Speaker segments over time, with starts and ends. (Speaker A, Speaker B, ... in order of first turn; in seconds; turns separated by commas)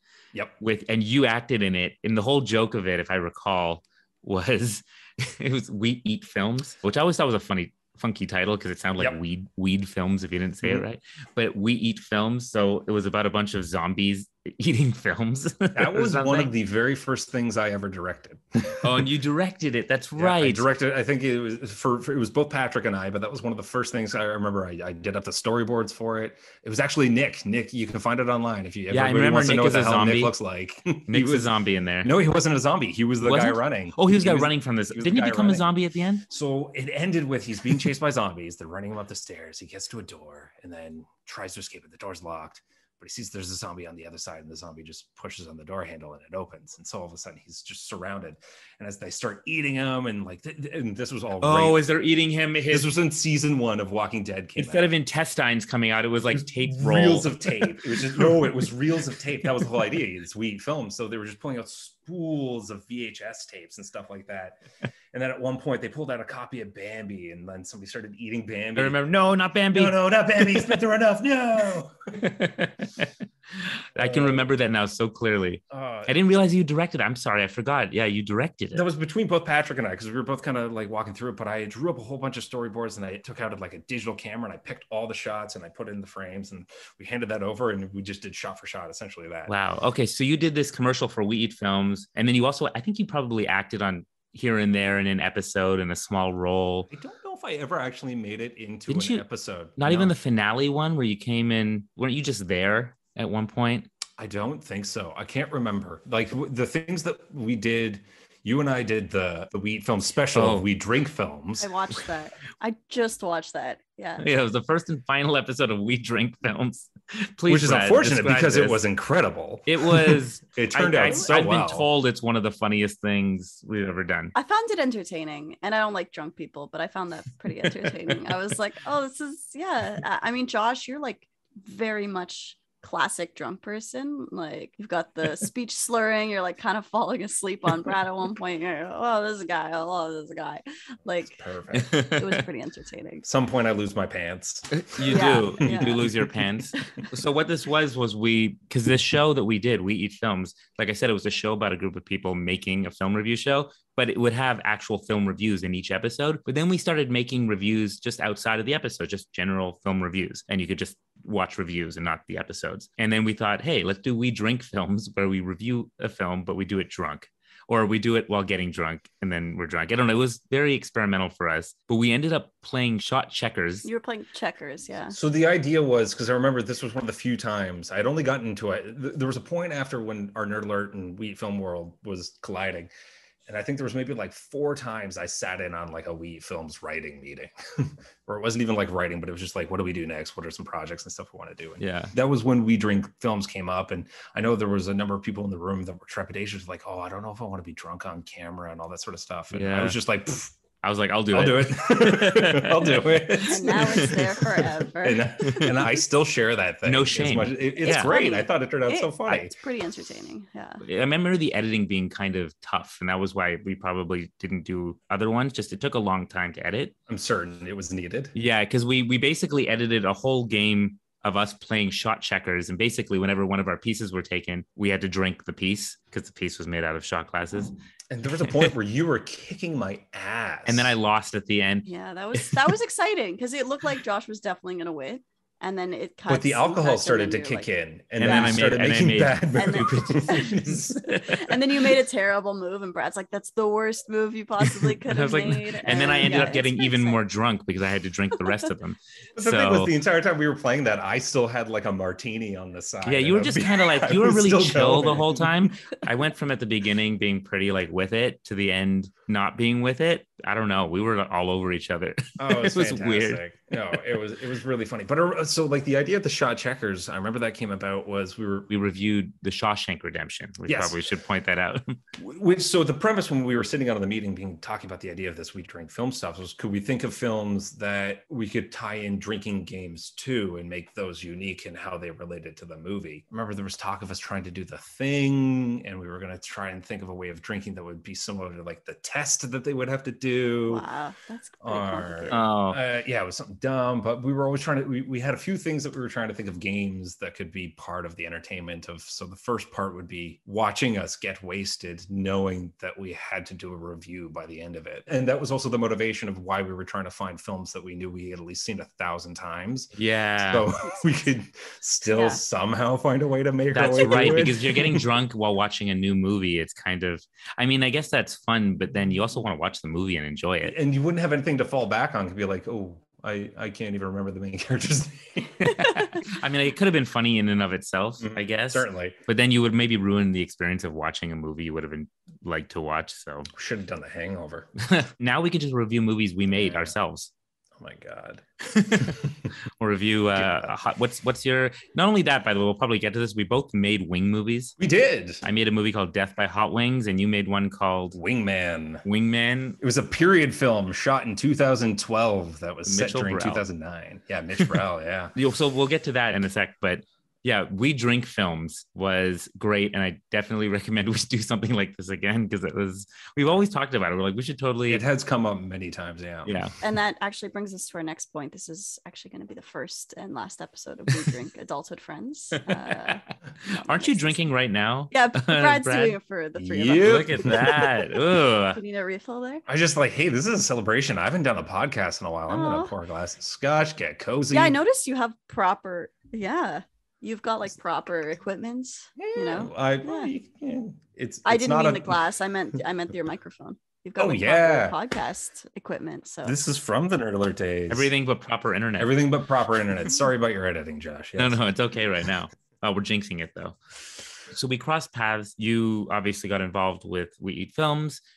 Speaker A: 0.6-16.5, Speaker B: 15.8-19.1, Speaker A: 18.8-20.6, Speaker B: 20.2-35.7, Speaker A: 28.9-30.3, Speaker A: 31.1-32.1, Speaker A: 33.2-36.2, Speaker B: 36.3-51.8, Speaker A: 51.4-52.9, Speaker B: 52.7-54.9, Speaker A: 54.6-58.5, Speaker B: 56.6-64.6, Speaker B: 65.1-69.0, Speaker A: 68.8-70.8, Speaker B: 69.7-72.2, Speaker A: 72.1-78.8, Speaker B: 74.0-74.5, Speaker B: 75.7-76.2, Speaker B: 78.7-89.5, Speaker A: 89.5-96.9, Speaker B: 96.9-100.1, Speaker A: 98.9-99.2, Speaker A: 99.8-103.9, Speaker B: 104.2-111.7, Speaker A: 110.3-110.7, Speaker C: 111.6-114.2, Speaker A: 114.2-118.8, Speaker B: 117.5-121.9, Speaker A: 119.7-124.3, Speaker C: 124.3-141.4, Speaker B: 141.2-142.0, Speaker A: 141.7-142.4, Speaker C: 142.0-143.2, Speaker B: 143.2-146.1, Speaker A: 144.7-173.9, Speaker C: 145.1-146.2, Speaker C: 146.7-147.1, Speaker C: 173.8-175.2, Speaker B: 175.1-182.9, Speaker B: 183.5-200.6, Speaker A: 191.8-192.1, Speaker A: 199.5-200.0, Speaker A: 200.8-204.2, Speaker B: 201.3-209.5, Speaker C: 203.4-205.7, Speaker A: 205.4-205.8, Speaker A: 206.8-208.1, Speaker C: 207.8-210.8, Speaker A: 210.8-216.9, Speaker B: 217.1-218.3, Speaker A: 218.3-227.7, Speaker B: 228.1-230.9, Speaker A: 230.7-232.8, Speaker C: 231.9-237.7, Speaker B: 236.3-241.4, Speaker C: 238.2-238.6, Speaker A: 238.2-241.5, Speaker C: 239.6-247.2, Speaker A: 244.6-249.9, Speaker B: 249.4-255.7, Speaker A: 253.1-263.4, Speaker B: 262.4-268.7, Speaker A: 268.7-272.0, Speaker B: 270.7-271.0, Speaker B: 272.2-290.8, Speaker C: 290.7-292.5, Speaker B: 291.6-315.0, Speaker A: 292.3-292.8, Speaker A: 310.0-310.7, Speaker C: 312.1-312.4, Speaker A: 313.7-320.7, Speaker B: 320.6-325.9, Speaker A: 325.8-333.5, Speaker B: 328.2-329.2, Speaker B: 333.5-334.7, Speaker A: 334.8-337.3, Speaker B: 336.5-336.9, Speaker B: 337.8-338.4, Speaker A: 338.6-344.8, Speaker B: 338.9-339.3, Speaker B: 340.4-340.8, Speaker B: 344.8-345.4, Speaker A: 345.4-348.2, Speaker B: 348.1-349.0, Speaker A: 349.1-349.8, Speaker B: 349.8-355.4, Speaker A: 352.9-353.6, Speaker A: 355.4-365.0, Speaker B: 364.9-366.6, Speaker A: 366.5-366.7, Speaker C: 366.8-374.4, Speaker A: 372.7-376.2, Speaker C: 375.1-379.6, Speaker B: 376.6-377.8, Speaker A: 377.0-378.8, Speaker B: 379.7-384.8, Speaker C: 382.5-382.9, Speaker C: 384.5-390.3, Speaker B: 389.2-392.2, Speaker C: 391.4-396.6, Speaker B: 394.2-395.0, Speaker B: 396.4-398.1, Speaker A: 397.9-399.1, Speaker B: 399.0-401.6, Speaker A: 401.4-403.8, Speaker A: 404.5-408.2